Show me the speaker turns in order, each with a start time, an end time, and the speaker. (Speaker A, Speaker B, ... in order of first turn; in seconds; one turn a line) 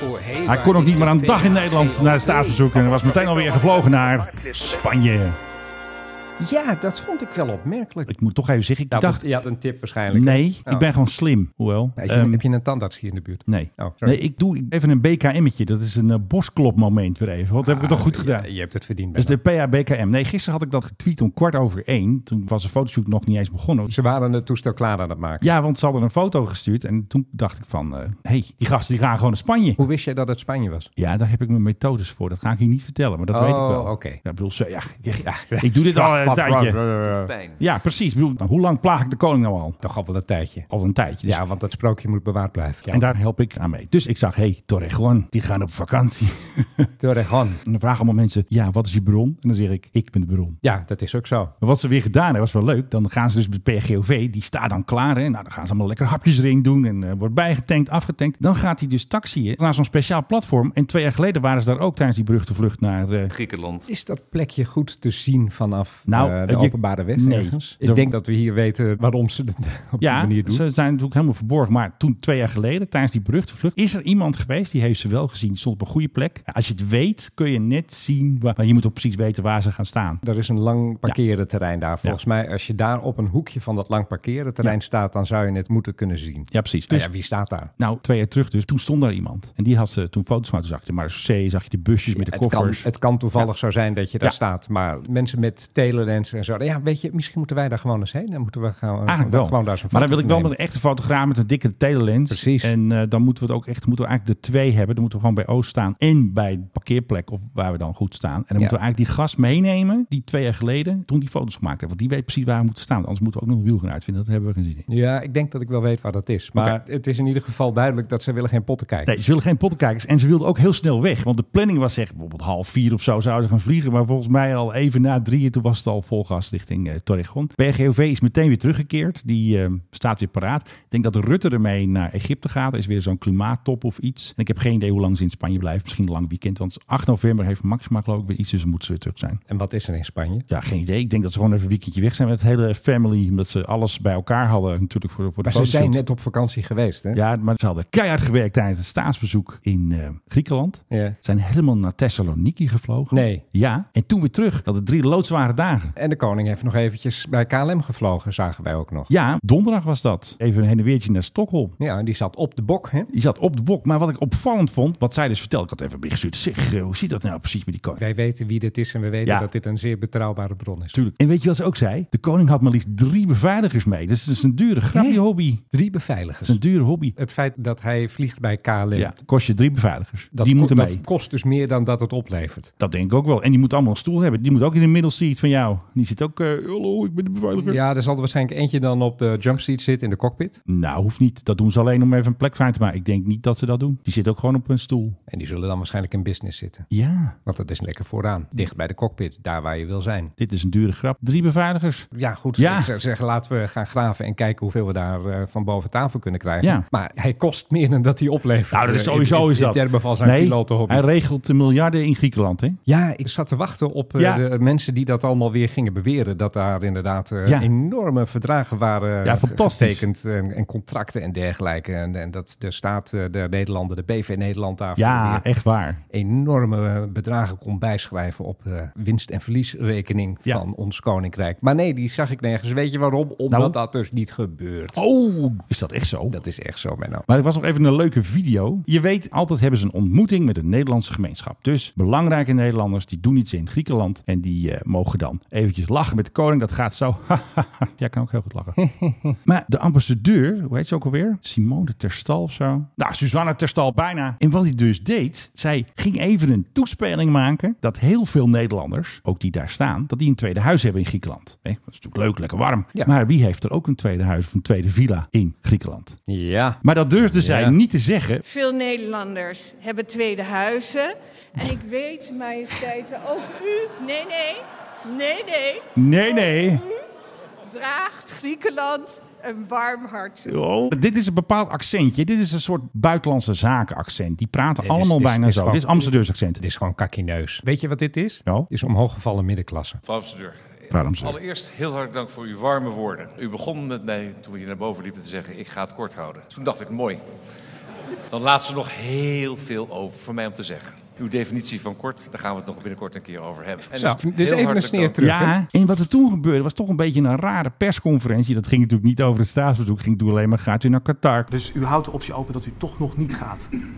Speaker A: 0.3-2.6
Speaker B: 0.5-5.4
Speaker A: 6.4-8.1
Speaker B: 8.1-9.3
Speaker A: 8.9-10.9
Speaker B: 10.1-12.4
Speaker A: 12.0-14.2
Speaker B: 13.5-18.5
Speaker A: 17.6-19.4
Speaker B: 19.2-23.9
Speaker A: 23.9-25.5
Speaker B: 25.4-29.8
Speaker A: 29.8-30.9
Speaker B: 31.0-36.8
Speaker A: 33.3-34.2
Speaker A: 35.2-37.3
Speaker C: 37.1-37.6
Speaker B: 37.6-39.8
Speaker A: 39.8-40.7
Speaker B: 40.7-41.4
Speaker A: 41.3-43.1
Speaker B: 42.9-46.9
Speaker A: 47.0-47.6
Speaker B: 47.6-50.6
Speaker A: 50.6-51.5
Speaker B: 51.6-63.3
Speaker C: 63.3-63.9
Speaker A: 63.9-70.6
Speaker B: 66.1-68.1
Speaker B: 70.0-80.2
Speaker A: 80.2-87.7
Speaker B: 86.5-87.1
Speaker B: 87.8-92.9
Speaker A: 92.2-100.5
Speaker B: 99.1-114.8
Speaker A: 102.3-102.7
Speaker A: 114.9-119.1
Speaker B: 119.1-139.4
Speaker A: 139.5-140.5
Speaker B: 140.5-146.0
Speaker A: 145.4-147.2
Speaker B: 147.1-155.9
Speaker A: 150.9-151.2
Speaker A: 153.1-153.4
Speaker A: 156.0-159.1
Speaker B: 159.1-161.8
Speaker A: 161.8-163.1
Speaker B: 163.1-168.0
Speaker A: 168.0-171.0
Speaker B: 170.9-175.6
Speaker A: 174.9-176.6
Speaker B: 176.4-177.2
Speaker A: 177.2-179.1
Speaker B: 178.9-181.0
Speaker A: 180.3-182.7
Speaker B: 182.8-187.8
Speaker A: 187.6-190.6
Speaker B: 190.7-195.2
Speaker A: 195.3-196.9
Speaker B: 196.9-197.4
Speaker A: 197.4-200.3
Speaker B: 200.4-202.9
Speaker A: 202.1-211.1
Speaker B: 208.7-212.8
Speaker A: 212.9-225.4
Speaker B: 214.2-214.4
Speaker B: 219.2-220.1
Speaker B: 225.0-226.0
Speaker A: 226.1-235.0
Speaker B: 233.5-233.8
Speaker B: 234.9-236.4
Speaker A: 236.3-237.3
Speaker B: 237.3-248.8
Speaker A: 248.8-249.4
Speaker B: 249.4-266.2
Speaker A: 266.3-267.8
Speaker B: 266.8-268.4
Speaker D: 268.4-276.8
Speaker B: 276.0-276.9
Speaker D: 277.6-280.6
Speaker B: 280.5-286.6
Speaker A: 284.8-290.0
Speaker C: 290.1-297.2
Speaker B: 290.9-291.4
Speaker C: 298.3-305.2
Speaker A: 303.9-305.6
Speaker B: 305.2-311.5
Speaker E: 311.5-313.7